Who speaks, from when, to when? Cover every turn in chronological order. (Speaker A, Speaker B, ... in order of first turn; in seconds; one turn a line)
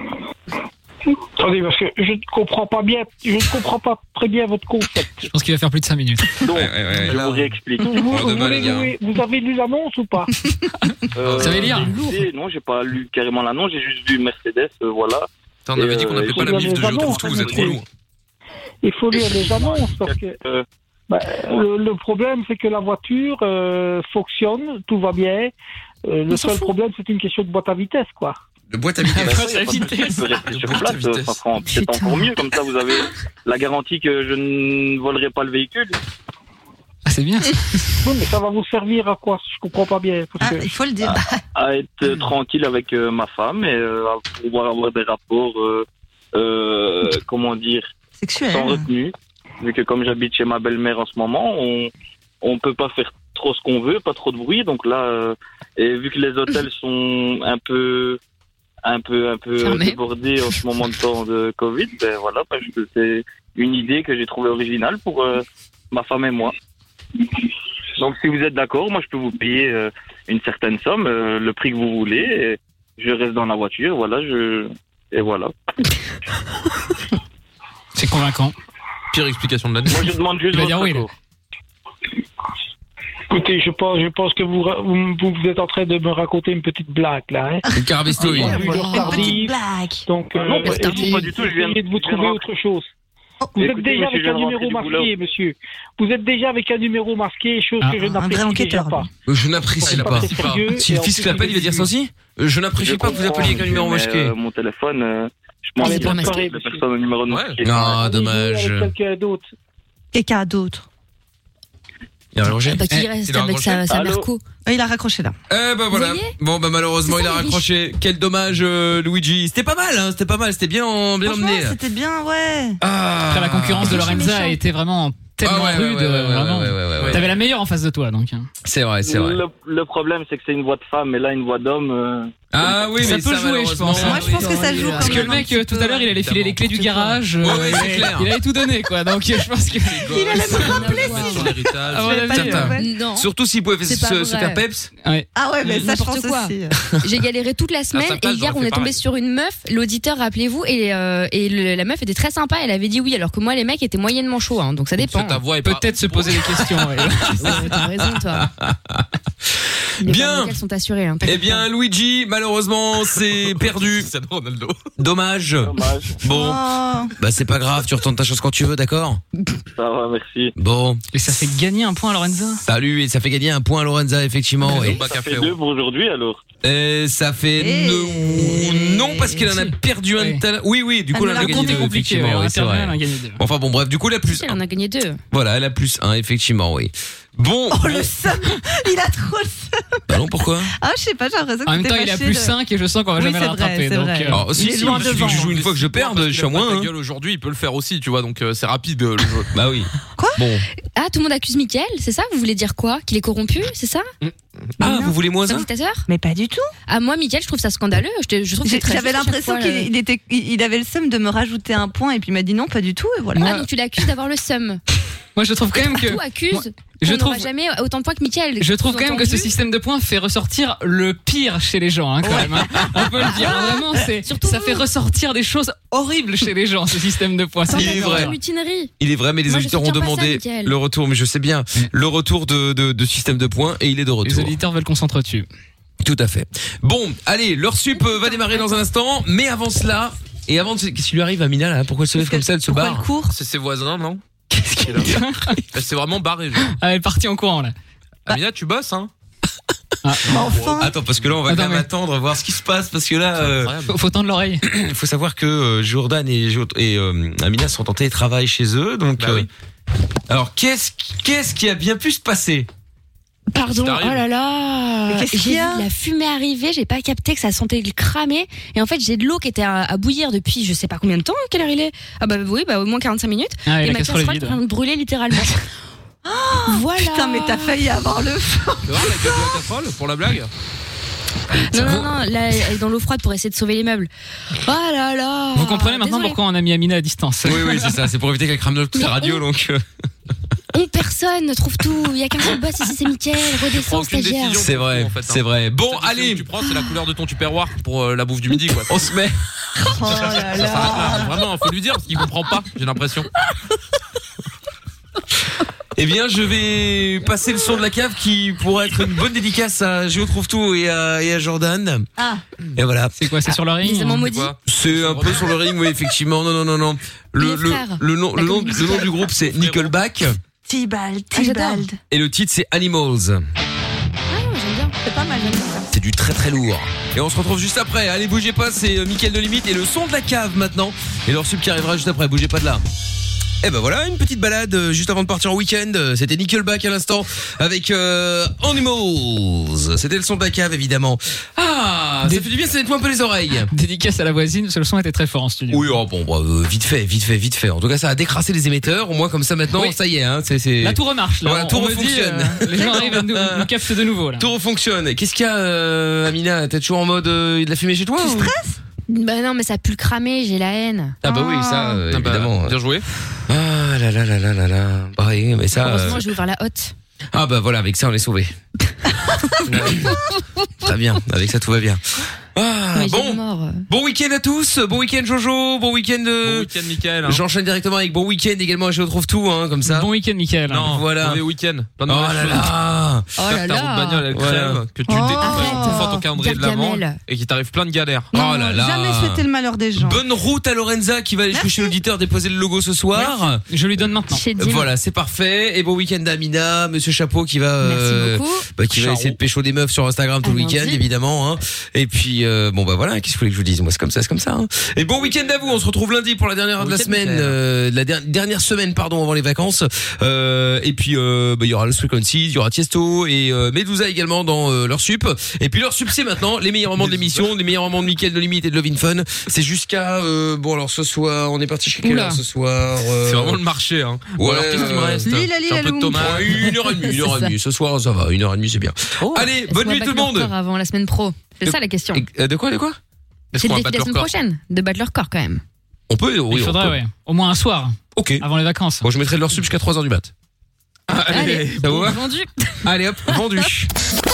Speaker A: 1.4-5.3
Speaker B: 5.3-6.3
Speaker C: 6.4-8.1
Speaker D: 6.5-7.3
Speaker E: 7.1-7.4
Speaker A: 7.8-10.3
Speaker D: 8.0-8.9
Speaker C: 11.1-17.8
Speaker E: 11.2-11.9
Speaker B: 11.4-12.0
Speaker E: 15.7-17.9
Speaker A: 16.3-17.8
Speaker A: 18.8-20.4
Speaker C: 19.1-20.6
Speaker A: 21.1-25.5
Speaker A: 26.1-28.4
Speaker D: 28.7-29.6
Speaker B: 29.1-30.2
Speaker C: 29.1-36.0
Speaker E: 30.3-31.4
Speaker F: 31.7-32.3
Speaker B: 37.0-37.6
Speaker A: 38.0-40.6
Speaker F: 40.4-41.4
Speaker C: 41.0-47.9
Speaker F: 48.2-48.8
Speaker C: 48.5-51.9
Speaker C: 52.4-58.2
Speaker C: 58.8-66.5
Speaker G: 59.6-60.0
Speaker C: 68.0-75.5
Speaker B: 78.0-78.5
Speaker E: 79.1-80.2
Speaker C: 79.8-81.1
Speaker B: 80.5-81.1
Speaker A: 83.3-87.6
Speaker D: 87.7-88.6
Speaker A: 88.2-89.5
Speaker F: 88.4-90.0
Speaker G: 88.8-89.3
Speaker A: 90.1-92.9
Speaker C: 90.3-92.5
Speaker A: 93.6-99.1
Speaker C: 93.6-95.1
Speaker F: 98.1-99.0
Speaker D: 99.3-104.3
Speaker A: 99.8-101.6
Speaker E: 99.8-101.8
Speaker C: 102.8-108.0
Speaker A: 105.8-106.8
Speaker G: 105.9-106.5
Speaker E: 107.3-107.6
Speaker D: 107.6-108.9
Speaker A: 107.8-109.5
Speaker F: 110.1-110.8
Speaker D: 112.3-113.5
Speaker G: 112.7-114.4
Speaker E: 113.3-113.8
Speaker C: 113.9-114.3
Speaker F: 114.7-115.3
Speaker D: 115.5-121.8
Speaker G: 115.9-116.3
Speaker G: 117.1-117.6
Speaker F: 121.2-122.8
Speaker D: 122.8-124.1
Speaker B: 123.3-128.5
Speaker G: 124.0-124.5
Speaker D: 125.4-127.3
Speaker D: 128.6-129.4
Speaker C: 129.0-132.3
Speaker D: 132.5-134.9
Speaker B: 133.0-142.8
Speaker F: 133.9-136.1
Speaker G: 134.8-135.4
Speaker E: 136.2-137.0
Speaker D: 137.4-138.3
Speaker E: 139.7-142.8
Speaker F: 140.0-142.9
Speaker G: 140.5-141.5
Speaker G: 142.7-143.3
Speaker D: 143.1-144.9
Speaker G: 143.8-144.6
Speaker F: 145.3-146.7
Speaker G: 145.6-155.4
Speaker E: 147.9-149.0
Speaker E: 155.0-156.4
Speaker B: 155.6-157.5
Speaker G: 157.4-158.5
Speaker D: 157.4-160.6
Speaker G: 160.0-161.7
Speaker D: 161.2-164.1
Speaker E: 163.3-164.8
Speaker D: 165.0-166.6
Speaker C: 165.6-166.2
Speaker F: 166.2-167.1
Speaker D: 167.2-169.2
Speaker C: 169.8-170.5
Speaker D: 170.6-171.0
Speaker B: 171.1-172.6
Speaker D: 172.6-175.0
Speaker E: 174.7-175.6
Speaker C: 174.8-176.4
Speaker D: 176.6-184.6
Speaker F: 177.6-179.5
Speaker B: 179.5-180.4
Speaker F: 181.2-181.7
Speaker B: 181.3-183.4
Speaker G: 184.3-185.2
Speaker D: 185.3-188.1
Speaker F: 187.7-190.0
Speaker D: 190.1-190.7
Speaker F: 190.8-192.6
Speaker B: 191.6-194.4
Speaker F: 193.2-195.4
Speaker D: 194.3-196.9
Speaker E: 194.8-199.5
Speaker D: 199.5-200.6
Speaker G: 200.9-204.1
Speaker D: 204.8-205.7
Speaker F: 204.8-205.1
Speaker G: 205.4-206.1
Speaker F: 206.1-206.7
Speaker G: 206.9-209.9
Speaker F: 208.6-213.7
Speaker B: 213.3-213.6
Speaker G: 213.4-214.8
Speaker B: 215.3-217.5
Speaker G: 215.7-219.5
Speaker B: 218.6-228.3
Speaker D: 222.3-223.3
Speaker G: 223.3-224.8
Speaker G: 227.7-228.9
Speaker D: 227.7-228.3
Speaker D: 229.0-234.5
Speaker G: 229.5-230.8
Speaker B: 234.2-235.4
Speaker D: 236.0-243.1
Speaker G: 238.0-238.7
Speaker F: 242.2-243.3
Speaker E: 243.3-244.2
Speaker F: 244.5-245.2
Speaker B: 245.0-245.6
Speaker E: 245.7-246.8
Speaker B: 246.8-247.7
Speaker E: 248.3-249.1
Speaker B: 250.0-250.3
Speaker E: 250.2-251.2
Speaker F: 250.3-250.9
Speaker D: 250.8-253.7
Speaker B: 251.5-251.9
Speaker E: 253.3-253.9
Speaker B: 253.9-254.6
Speaker D: 254.6-259.5
Speaker E: 259.2-259.5
Speaker D: 260.3-262.7
Speaker G: 263.5-275.6
Speaker E: 263.6-264.2
Speaker F: 265.1-265.9
Speaker B: 273.6-274.6
Speaker F: 276.2-279.6
Speaker G: 276.7-277.8
Speaker E: 278.8-280.5
Speaker D: 281.5-282.1
Speaker G: 281.7-286.4
Speaker B: 285.5-288.0
Speaker D: 287.4-289.8
Speaker G: 288.9-289.4
Speaker G: 290.7-294.6
Speaker E: 293.7-299.1
Speaker D: 294.5-296.5
Speaker D: 298.9-299.4
Speaker F: 299.9-301.4
Speaker E: 300.2-303.3
Speaker D: 305.9-312.1
Speaker F: 312.2-312.4
Speaker D: 312.7-313.1
Speaker B: 313.2-314.3
Speaker G: 313.8-314.5
Speaker E: 314.2-315.5
Speaker D: 314.6-320.4
Speaker G: 317.4-319.1
Speaker E: 319.4-319.9
Speaker F: 320.6-322.0
Speaker G: 321.3-321.9
Speaker D: 322.1-323.4
Speaker G: 324.3-324.9
Speaker F: 325.0-325.9
Speaker D: 325.9-332.8
Speaker D: 333.6-343.7
Speaker B: 343.7-345.9
Speaker D: 345.7-353.7
Speaker B: 350.8-354.5
Speaker D: 354.4-358.5
Speaker F: 358.2-358.8
Speaker G: 359.1-361.6
Speaker D: 361.2-362.8
Speaker E: 362.1-363.1
Speaker D: 363.5-366.3
Speaker G: 365.7-366.9
Speaker D: 367.3-368.5
Speaker E: 369.6-370.0
Speaker D: 369.7-370.2
Speaker D: 370.8-372.0
Speaker D: 372.5-376.7
Speaker G: 372.9-373.9
Speaker E: 376.4-377.4
Speaker D: 377.2-380.1
Speaker B: 379.8-380.9
Speaker E: 380.7-382.7
Speaker D: 380.8-381.4
Speaker D: 382.1-383.3
Speaker G: 383.4-384.2
Speaker E: 383.5-388.3
Speaker D: 384.3-384.8
Speaker F: 385.1-386.2
Speaker G: 385.4-387.2
Speaker F: 388.3-390.2
Speaker D: 388.3-393.6
Speaker F: 391.5-391.9
Speaker B: 393.1-394.4
Speaker G: 394.3-394.9
Speaker D: 394.6-423.6
Speaker G: 397.8-398.7
Speaker G: 400.4-401.0
Speaker E: 405.2-405.7
Speaker E: 406.8-407.6
Speaker E: 417.0-417.5
Speaker G: 422.0-422.4
Speaker E: 423.2-426.7
Speaker D: 424.4-425.3
Speaker F: 425.3-426.5
Speaker D: 426.1-430.5
Speaker G: 427.1-427.5
Speaker G: 429.4-432.2
Speaker D: 431.6-433.0
Speaker E: 433.5-434.3
Speaker G: 433.6-435.6
Speaker D: 436.1-437.0
Speaker B: 436.5-439.1
Speaker D: 438.1-438.4
Speaker D: 439.0-440.3
Speaker E: 441.1-442.0
Speaker G: 441.3-442.8
Speaker D: 441.3-442.2
Speaker D: 442.8-443.9